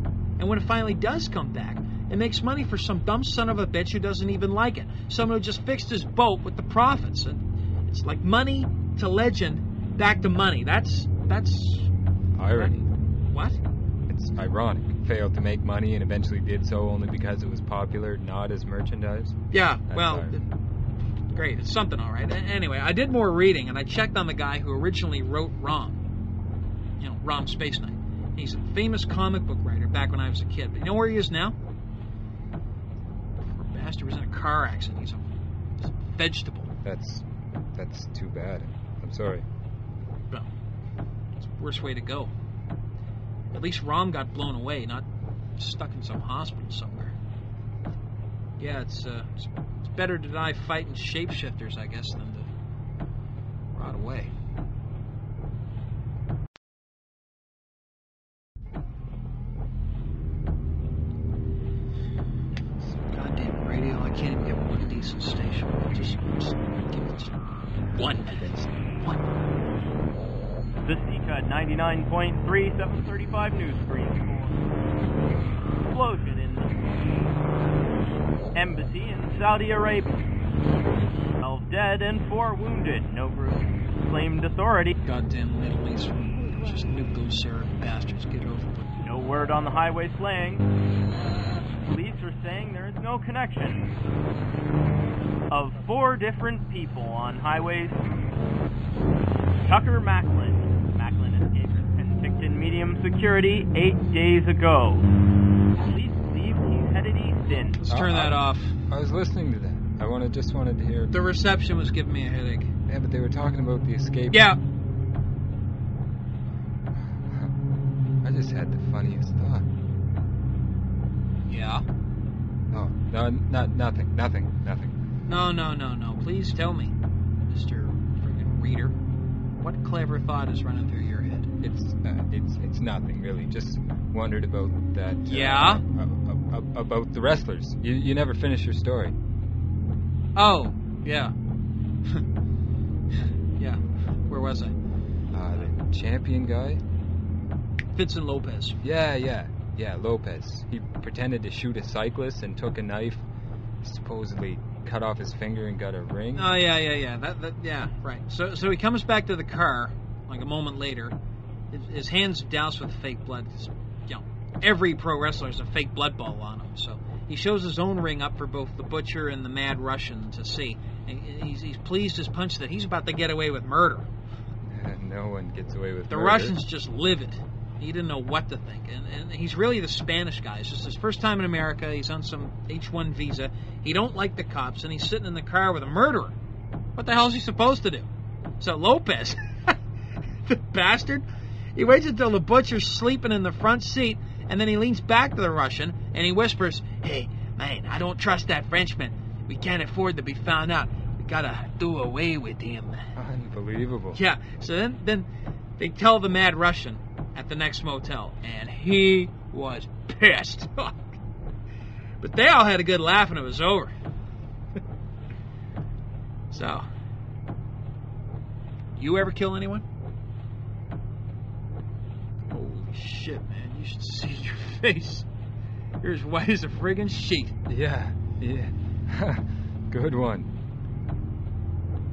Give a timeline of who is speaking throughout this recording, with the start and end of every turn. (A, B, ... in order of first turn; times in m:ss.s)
0:00.4-0:11.9 A
0:12.4-0:12.9 B
0:13.3-0:13.6 A
0:14.1-0:19.4 B
0:19.5-0:20.4 A
0:19.9-0:20.3 B
0:21.3-0:26.0 A
0:27.0-0:31.6 A
0:33.5-0:35.3 A
0:35.8-0:36.7 A
0:36.8-0:37.2 B
0:37.8-0:39.4 B
0:41.5-0:42.3 A
0:43.5-0:45.0 A
0:45.6-0:47.2 A
0:48.6-0:52.5 A
0:53.7-0:54.3 A
1:03.1-1:07.4 A
1:07.9-1:09.3 A
1:10.8-1:14.6 C
1:15.9-1:16.7 C
1:18.6-1:20.1 C
1:21.4-1:24.9 C
1:25.0-1:28.8 A
1:29.0-1:30.6 C
1:31.8-1:33.9 C
1:35.5-1:38.1 C
1:39.6-1:45.1 C
1:45.8-1:47.8 C
1:47.5-1:48.7 A
1:47.9-1:48.4 B
1:48.9-1:51.1 B
1:51.1-1:52.7 A
1:52.9-1:54.4 B
1:54.3-1:54.6 A
1:56.9-1:57.5 B
1:58.2-1:59.7 B
2:01.5-2:01.8 A
2:02.7-2:04.9 B
2:05.3-2:06.9 A
2:07.5-2:09.0 A
2:09.6-2:11.5 A
2:11.6-2:19.2 B
2:15.3-2:15.8 A
2:20.4-2:21.3 A
2:23.6-2:24.7 A
2:25.3-2:26.8 B
2:28.0-2:28.8 A
2:28.8-2:33.2 B
2:33.8-2:36.5 B
2:36.4-2:41.2 A
2:41.7-2:54.1 A
2:54.6-2:56.6 B
2:56.1-3:06.4 A
3:07.0-3:08.1 A
3:08.6-3:09.7 A
3:10.5-3:11.2 A
3:11.8-3:23.0 A
3:23.2-3:24.2 B
3:24.2-3:25.3 A
3:25.8-3:31.2 A
3:32.2-3:33.9 A
3:36.5-3:36.8 A
3:39.0-3:39.8 A
3:42.5-3:45.2 A
3:46.0-3:47.5 A
3:47.7-3:50.5 B